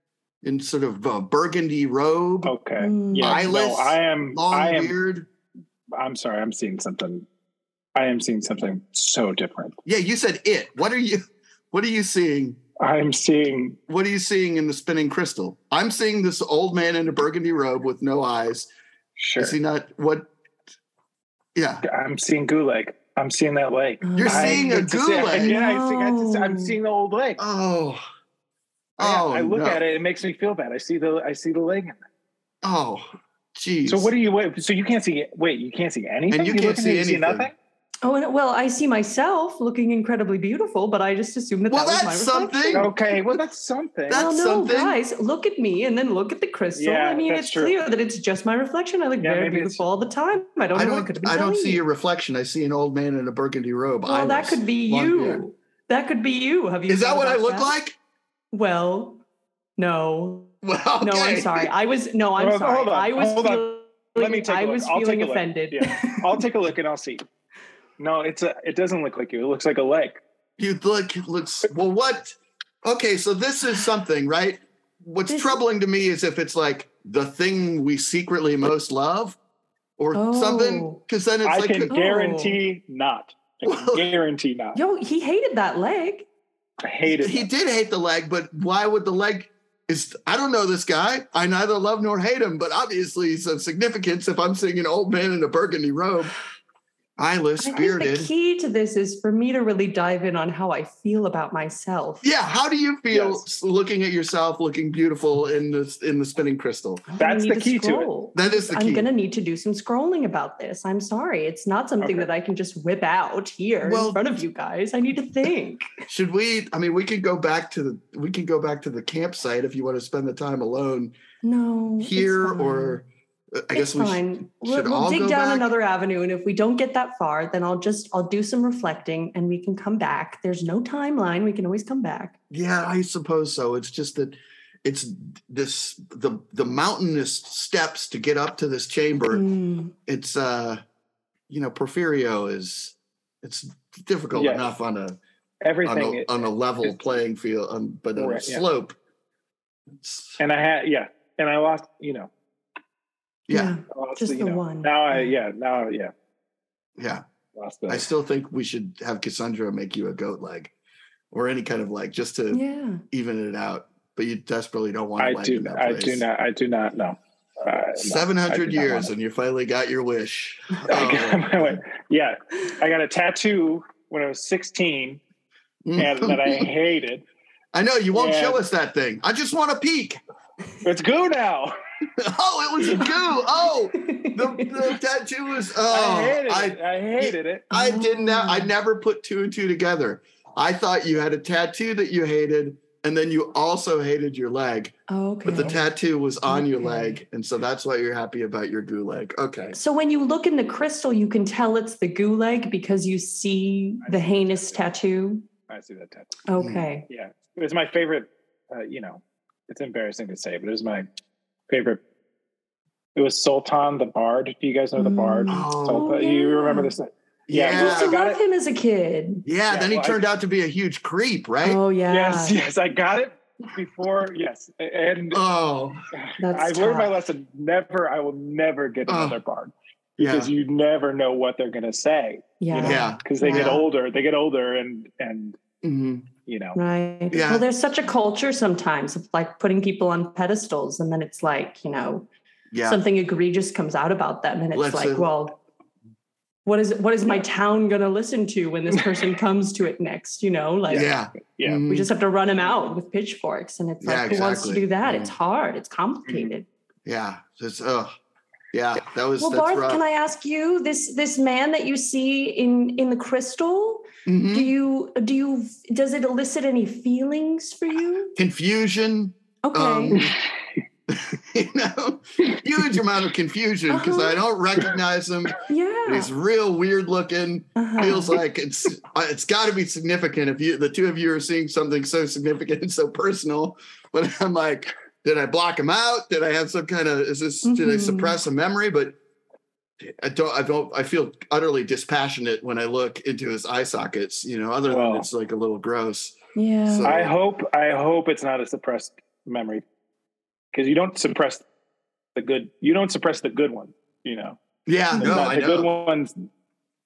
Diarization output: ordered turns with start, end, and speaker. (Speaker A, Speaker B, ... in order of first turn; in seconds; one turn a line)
Speaker A: 0.4-2.5
Speaker B: 2.4-4.9
Speaker C: 2.8-3.5
Speaker A: 3.2-5.3
Speaker B: 6.0-7.3
Speaker B: 8.0-9.8
Speaker A: 9.8-12.6
Speaker B: 12.8-13.8
Speaker A: 13.9-18.7
Speaker B: 19.2-19.6
Speaker A: 19.4-20.3
Speaker A: 21.5-21.8
Speaker B: 21.8-27.4
Speaker C: 24.0-24.7
Speaker A: 24.2-25.5
Speaker C: 25.3-26.8
Speaker A: 27.4-28.0
Speaker A: 29.0-29.8
Speaker B: 29.0-32.0
Speaker A: 32.6-34.1
Speaker B: 33.9-37.5
Speaker A: 36.3-37.5
Speaker C: 38.0-42.9
Speaker A: 41.7-42.9
Speaker B: 42.7-44.2
Speaker A: 44.1-45.0
Speaker C: 44.1-51.8
Speaker B: 46.7-47.8
Speaker B: 49.2-49.9
Speaker A: 50.7-55.4
Speaker C: 54.0-57.7
Speaker A: 56.9-58.0
Speaker C: 58.5-59.2
Speaker C: 59.8-66.4
Speaker A: 60.6-61.7
Speaker B: 62.4-67.2
Speaker B: 68.0-70.2
Speaker A: 70.6-79.4
Speaker C: 75.3-75.6
Speaker A: 80.0-81.9
Speaker C: 80.1-81.0
Speaker B: 81.4-84.8
Speaker C: 81.9-82.6
Speaker A: 83.6-84.0
Speaker C: 84.7-86.3
Speaker B: 86.8-87.5
Speaker A: 87.1-96.3
Speaker A: 97.2-98.3
Speaker C: 97.6-102.2
Speaker A: 102.2-107.0
Speaker B: 103.1-103.4
Speaker C: 107.1-115.9
Speaker B: 107.2-108.1
Speaker A: 108.3-109.1
Speaker B: 112.0-112.3
Speaker A: 113.8-114.3
Speaker A: 116.1-121.1
Speaker C: 121.4-123.0
Speaker A: 122.0-125.7
Speaker C: 123.7-132.3
Speaker A: 132.5-139.4
Speaker C: 139.3-139.9
Speaker A: 140.1-140.8
Speaker A: 141.5-145.2
Speaker B: 144.3-144.7
Speaker B: 145.6-146.9
Speaker A: 145.8-148.9
Speaker B: 148.2-148.7
Speaker A: 150.0-150.4
Speaker B: 150.4-152.3
Speaker A: 153.5-153.7
Speaker C: 153.5-155.3
Speaker B: 153.9-156.1
Speaker A: 157.0-157.2
Speaker B: 157.6-158.1
Speaker A: 157.9-160.7
Speaker A: 161.3-166.2
Speaker C: 162.5-163.0
Speaker B: 165.2-169.1
Speaker A: 168.0-171.8
Speaker B: 170.9-175.2
Speaker A: 175.8-176.7
Speaker B: 175.9-177.2
Speaker A: 177.7-180.2
Speaker B: 178.1-178.6
Speaker B: 180.8-181.7
Speaker A: 182.2-199.8
Speaker C: 183.9-184.7
Speaker B: 185.9-187.7
Speaker C: 187.7-188.7
Speaker C: 195.1-195.8
Speaker C: 196.5-197.2
Speaker C: 199.7-205.4
Speaker B: 204.0-204.9
Speaker B: 205.7-206.4
Speaker C: 206.5-207.1
Speaker A: 206.6-206.8
Speaker B: 207.1-211.1
Speaker B: 211.7-212.0
Speaker B: 213.1-218.4
Speaker C: 214.9-216.9
Speaker A: 215.5-216.1
Speaker A: 217.5-218.1
Speaker C: 217.7-219.4
Speaker A: 219.4-221.8
Speaker B: 219.7-220.3
Speaker C: 221.6-222.6
Speaker B: 222.1-225.4
Speaker A: 225.3-226.0
Speaker B: 226.2-235.6
Speaker C: 226.4-227.1
Speaker A: 229.1-229.4
Speaker A: 230.2-230.5
Speaker C: 232.6-233.8
Speaker A: 232.8-233.8
Speaker A: 235.8-236.3
Speaker B: 236.4-236.8
Speaker C: 236.8-242.3
Speaker A: 237.3-237.6
Speaker A: 242.7-243.0
Speaker C: 242.8-245.6
Speaker A: 244.7-245.3
Speaker C: 246.7-251.1
Speaker B: 250.9-251.8
Speaker A: 250.9-252.1
Speaker C: 251.9-256.7
Speaker A: 254.0-255.3
Speaker A: 257.1-258.1
Speaker A: 258.7-260.0
Speaker C: 259.4-268.4
Speaker A: 264.2-264.7
Speaker A: 268.4-270.3
Speaker C: 269.6-270.2
Speaker A: 271.1-289.1
Speaker C: 273.9-274.4
Speaker C: 275.6-276.3
Speaker C: 277.8-278.4
Speaker C: 287.6-288.4
Speaker A: 290.0-296.3
Speaker B: 294.9-295.3
Speaker C: 296.6-297.1
Speaker A: 296.9-297.3
Speaker B: 297.0-299.8
Speaker B: 300.7-301.6
Speaker B: 302.4-304.6
Speaker A: 304.9-305.9
Speaker C: 305.1-305.5
Speaker B: 305.2-306.4